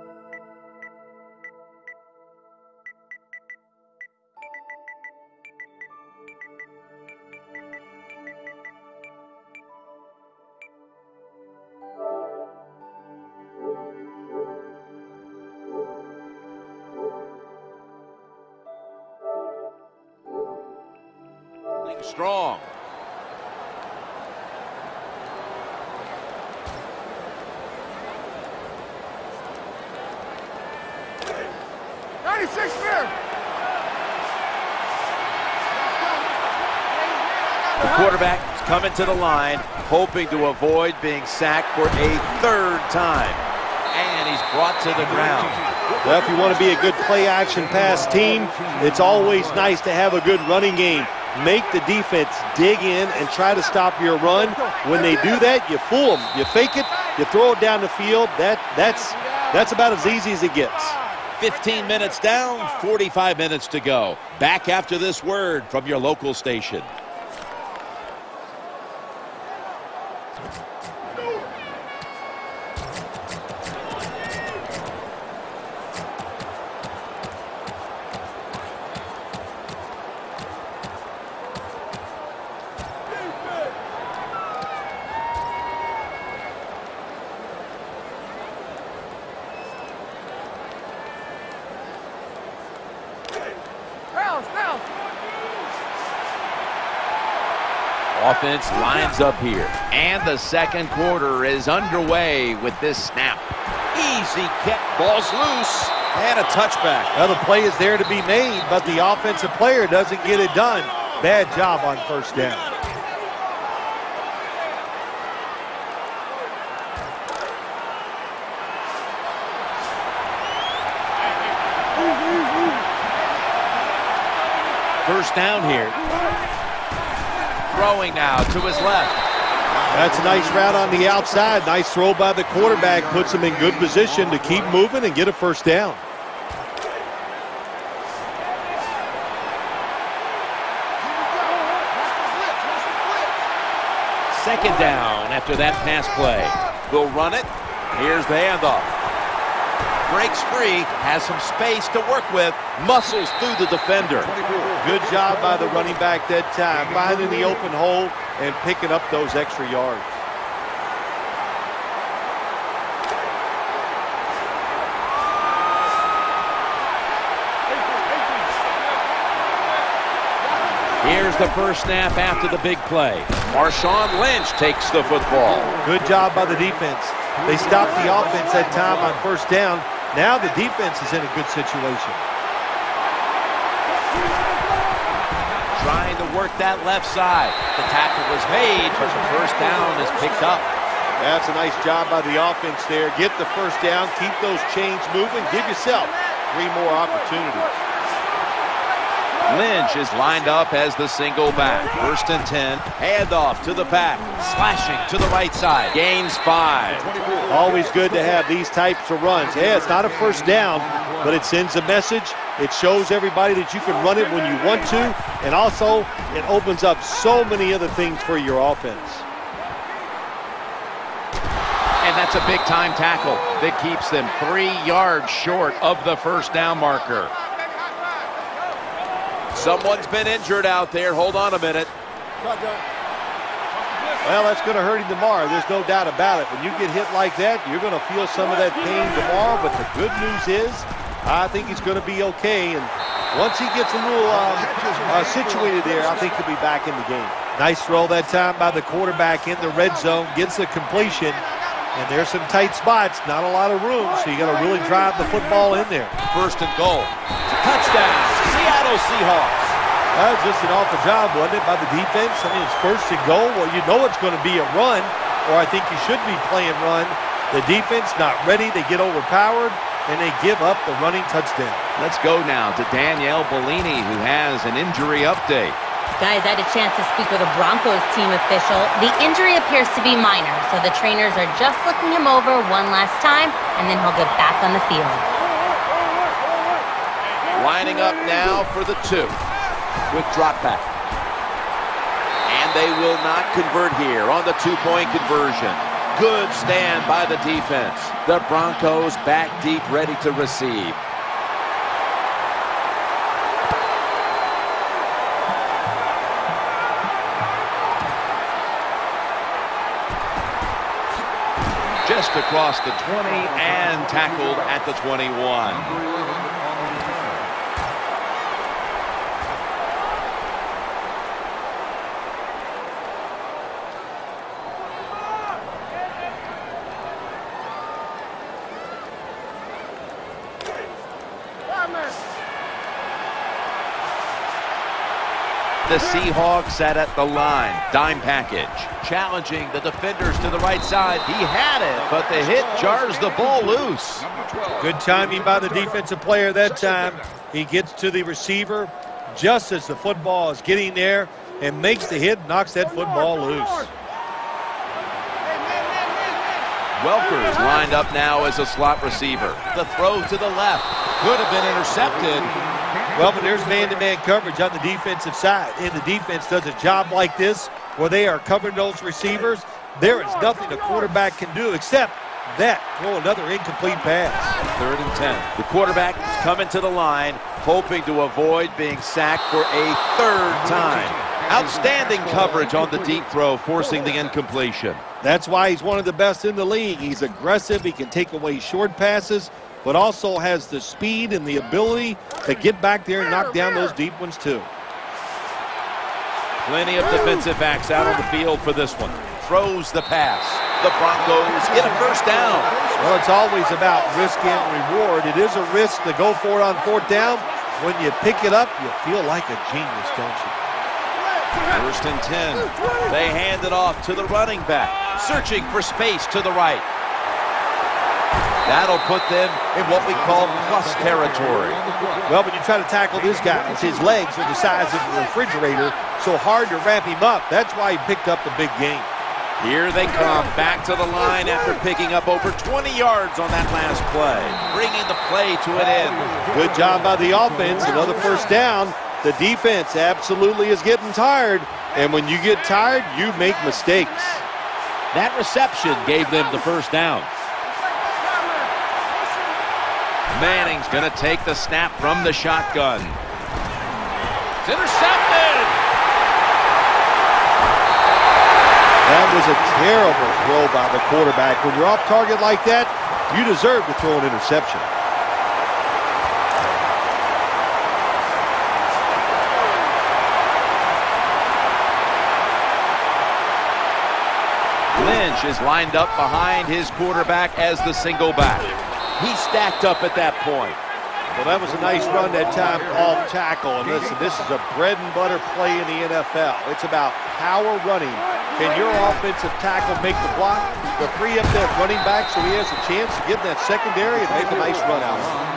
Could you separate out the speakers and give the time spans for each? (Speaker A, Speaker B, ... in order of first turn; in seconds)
Speaker A: 21.8-22.7, 37.8-45.6, 61.4-66.9, 98.1-107.1, 125.0-126.0, 127.7-129.2, 144.3-148.9, 150.0-154.4, 171.0-175.7, 185.7-190.7, 199.4-207.1, 222.0-227.3, 229.5-231.9, 256.3-259.8, 272.0-275.8, 287.5-289.4, 290.1-290.9, 292.5-301.0, 312.0-316.0, 335.9-344.3, 357.0-362.6, 374.7-385.0, 396.6-402.8, 411.7-416.9, 418.6-421.8, 429.6-436.3, 445.1-447.3, 450.3-453.2, 454.6-455.8, 474.9-480.8
Speaker B: 46.0-61.0, 107.1-112.7, 129.9-136.0, 154.8-160.1, 175.8-182.2, 191.2-197.7, 207.5-219.2, 234.2-256.1, 260.1-271.8, 344.8-353.9, 363.1-374.6, 385.2-394.7, 403.0-410.6, 422.2-429.1, 436.5-444.4, 459.0-464.9, 481.3-495.4
Speaker C: 276.2-285.2